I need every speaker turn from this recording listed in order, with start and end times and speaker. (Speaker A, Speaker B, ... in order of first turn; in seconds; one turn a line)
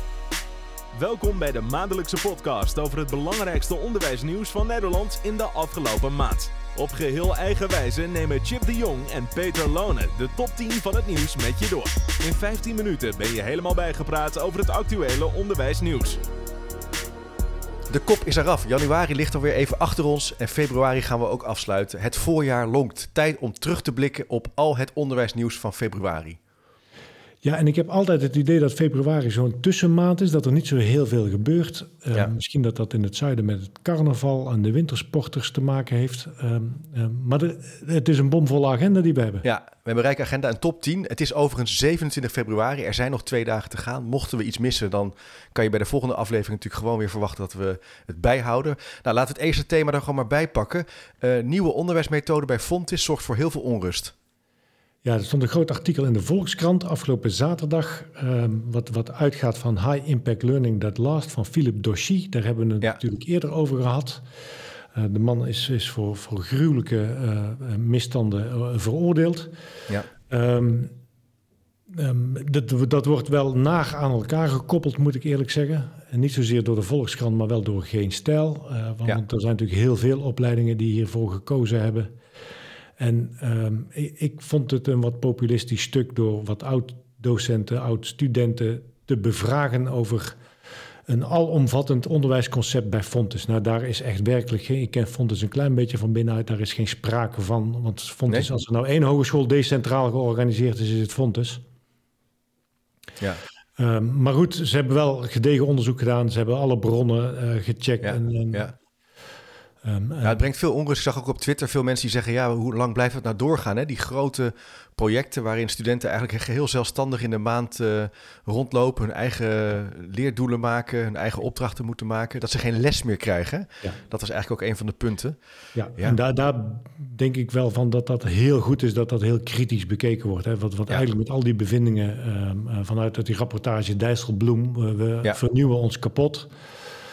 Speaker A: 0.9-16.2
Speaker B: 17.9-26.4
Speaker C: 27.4-39.5
Speaker B: 39.4-54.1
Speaker C: 55.0-64.2
Speaker C: 64.9-69.5
Speaker C: 70.3-70.9
Speaker C: 71.9-82.1
Speaker C: 83.0-90.4
Speaker C: 91.1-101.6
Speaker B: 98.3-98.5
Speaker C: 103.8-108.7
Speaker B: 108.0-108.7
Speaker C: 109.8-110.4
Speaker B: 110.2-125.4
Speaker C: 125.8-136.5